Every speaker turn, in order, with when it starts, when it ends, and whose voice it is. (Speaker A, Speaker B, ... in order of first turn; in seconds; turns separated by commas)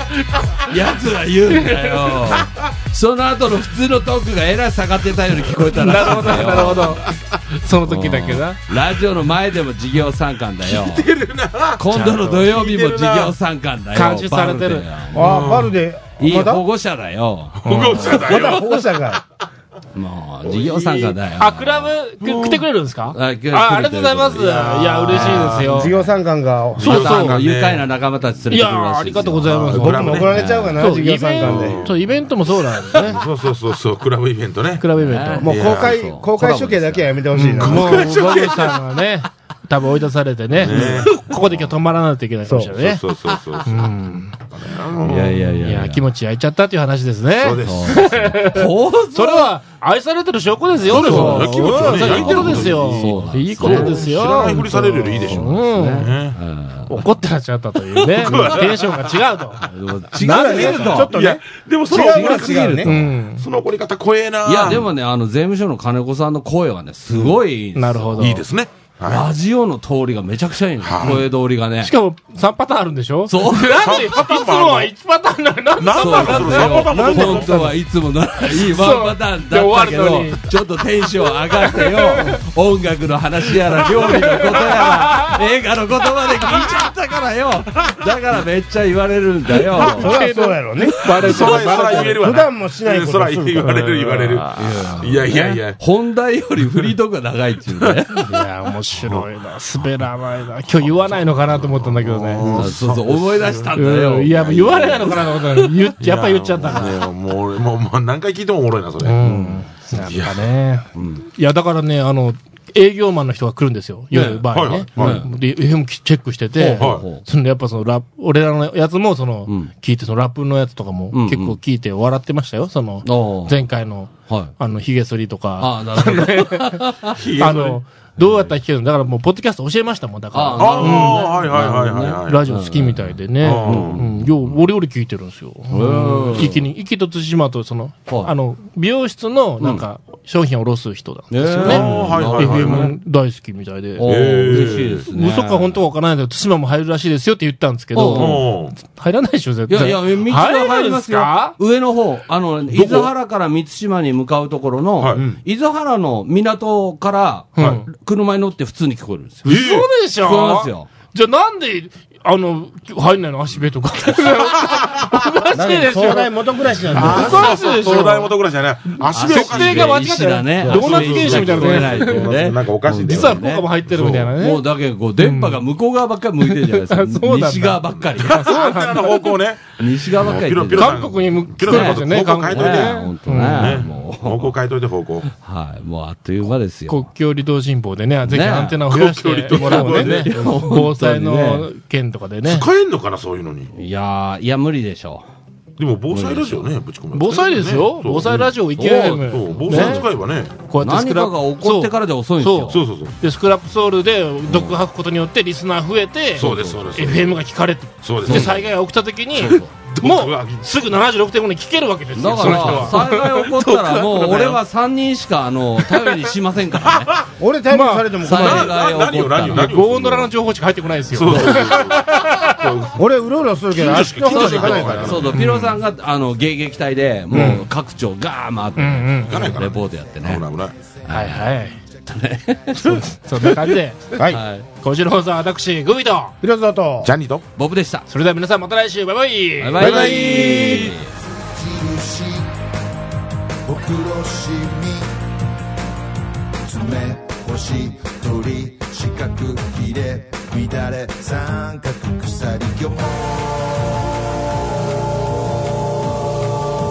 Speaker A: 0.6-7.0, Speaker B: 5.7-7.0, Speaker C: 6.5-7.1, Speaker B: 7.5-8.6, Speaker A: 7.9-11.1, Speaker C: 10.6-13.3, Speaker A: 11.8-15.5, Speaker B: 11.9-12.3, Speaker B: 13.9-14.9, Speaker D: 15.1-16.6, Speaker C: 15.2-15.7, Speaker A: 16.2-18.9, Speaker C: 17.6-18.6, Speaker B: 17.6-18.2, Speaker D: 18.1-19.2, Speaker A: 19.9-21.9, Speaker C: 20.4-21.1, Speaker B: 21.4-25.9, Speaker C: 22.3-22.6, Speaker A: 23.1-26.1, Speaker D: 25.7-26.9, Speaker C: 26.8-27.9, Speaker B: 26.8-27.4, Speaker A: 26.8-30.8, Speaker B: 28.5-30.2, Speaker C: 29.5-30.3, Speaker D: 29.7-31.9, Speaker B: 30.8-33.2, Speaker C: 31.4-32.0, Speaker C: 32.9-34.9, Speaker B: 34.8-35.5, Speaker A: 35.0-37.1, Speaker D: 35.4-38.2, Speaker C: 35.5-36.0, Speaker B: 37.3-43.0, Speaker C: 37.6-38.8, Speaker C: 40.5-41.5, Speaker D: 40.7-41.0, Speaker C: 42.8-43.9, Speaker A: 43.3-43.6, Speaker B: 43.6-44.4, Speaker C: 44.5-45.5, Speaker A: 45.0-46.1, Speaker B: 45.6-56.1, Speaker C: 47.4-48.3, Speaker A: 47.6-49.5, Speaker C: 50.9-56.4, Speaker A: 50.9-57.0, Speaker B: 56.9-61.1, Speaker C: 58.1-59.1, Speaker A: 59.6-61.1, Speaker D: 60.2-62.9, Speaker C: 61.1-64.9, Speaker A: 61.9-63.0, Speaker B: 62.9-63.4, Speaker A: 64.4-68.3, Speaker B: 67.7-68.4, Speaker C: 68.2-69.3, Speaker A: 69.0-71.9, Speaker C: 70.8-71.2, Speaker B: 71.8-77.2, Speaker A: 73.3-73.9, Speaker C: 73.7-74.9, Speaker C: 75.8-77.7, Speaker A: 76.0-90.1, Speaker D: 76.9-77.7, Speaker B: 78.5-80.5, Speaker B: 81.1-82.4, Speaker B: 83.9-85.4, Speaker B: 89.7-92.2, Speaker D: 89.8-94.3, Speaker C: 91.1-95.8, Speaker A: 94.5-98.3, Speaker C: 96.6-96.9, Speaker B: 98.2-102.6, Speaker C: 101.0-103.7, Speaker A: 102.5-105.4, Speaker B: 103.7-107.0, Speaker C: 106.0-109.2, Speaker B: 109.0-131.3, Speaker A: 109.2-109.6, Speaker C: 109.9-110.5, Speaker A: 110.9-111.2, Speaker A: 114.1-115.3, Speaker C: 114.5-115.2, Speaker A: 116.5-117.2, Speaker C: 116.8-117.0, Speaker A: 121.1-121.5, Speaker A: 123.0-123.6, Speaker A: 124.3-124.5, Speaker A: 125.6-127.2, Speaker C: 127.1-127.8, Speaker A: 128.2-128.5, Speaker A: 130.3-134.5, Speaker C: 130.6-132.4, Speaker B: 132.2-151.6, Speaker C: 133.4-134.1, Speaker A: 135.7-136.7, Speaker A: 141.3-142.9, Speaker C: 141.6-142.9, Speaker A: 144.0-145.8, Speaker C: 144.1-145.1, Speaker A: 147.9-148.5, Speaker C: 148.1-148.8, Speaker A: 149.7-159.6, Speaker C: 152.7-153.1, Speaker C: 155.0-155.3, Speaker B: 157.6-157.8, Speaker C: 157.6-157.8, Speaker B: 159.4-166.4, Speaker C: 159.5-159.9, Speaker A: 160.2-160.9, Speaker C: 164.4-165.2, Speaker D: 165.5-167.6, Speaker C: 166.9-170.1, Speaker B: 166.9-168.3, Speaker A: 169.1-173.7, Speaker B: 169.3-172.4, Speaker C: 170.7-174.3, Speaker B: 173.0-174.6, Speaker A: 174.4-178.5, Speaker B: 175.2-175.6, Speaker B: 176.4-179.3, Speaker C: 178.2-185.3, Speaker A: 179.8-181.0, Speaker B: 180.7-183.8, Speaker A: 181.6-184.5, Speaker A: 185.3-187.1, Speaker B: 186.9-192.7, Speaker A: 188.3-188.8, Speaker C: 188.9-190.3, Speaker A: 189.5-191.7, Speaker C: 192.4-193.7, Speaker A: 193.7-195.2, Speaker C: 195.8-198.3, Speaker A: 196.1-196.7, Speaker B: 197.1-200.0, Speaker A: 198.3-200.1, Speaker C: 199.3-200.6, Speaker B: 200.7-213.5, Speaker A: 200.8-202.8, Speaker C: 202.7-203.2, Speaker A: 204.5-204.8, Speaker C: 206.4-207.4, Speaker A: 206.4-207.1, Speaker C: 208.0-208.6, Speaker A: 208.2-208.6, Speaker A: 209.3-209.7, Speaker C: 209.4-210.7, Speaker A: 212.1-217.2, Speaker C: 212.3-214.6, Speaker C: 216.8-217.3, Speaker D: 217.4-218.8, Speaker B: 217.7-218.1, Speaker A: 218.2-219.7, Speaker C: 218.3-220.3, Speaker B: 219.5-222.7, Speaker C: 221.1-223.0, Speaker D: 222.9-225.3, Speaker C: 223.7-225.4, Speaker A: 224.3-230.4, Speaker B: 224.7-225.8, Speaker D: 227.3-227.6, Speaker B: 227.3-227.7, Speaker B: 228.8-229.4, Speaker C: 229.3-230.8, Speaker A: 231.0-231.4, Speaker B: 231.1-231.8, Speaker A: 232.1-233.6, Speaker B: 232.8-234.1, Speaker A: 234.2-234.7, Speaker B: 234.8-236.3, Speaker D: 236.4-237.1, Speaker C: 237.0-237.4, Speaker A: 237.6-238.1, Speaker B: 238.1-240.5, Speaker A: 239.6-241.1, Speaker D: 239.8-240.9, Speaker C: 240.0-240.6, Speaker E: 241.1-242.5, Speaker E: 243.6-245.1, Speaker E: 246.6-253.4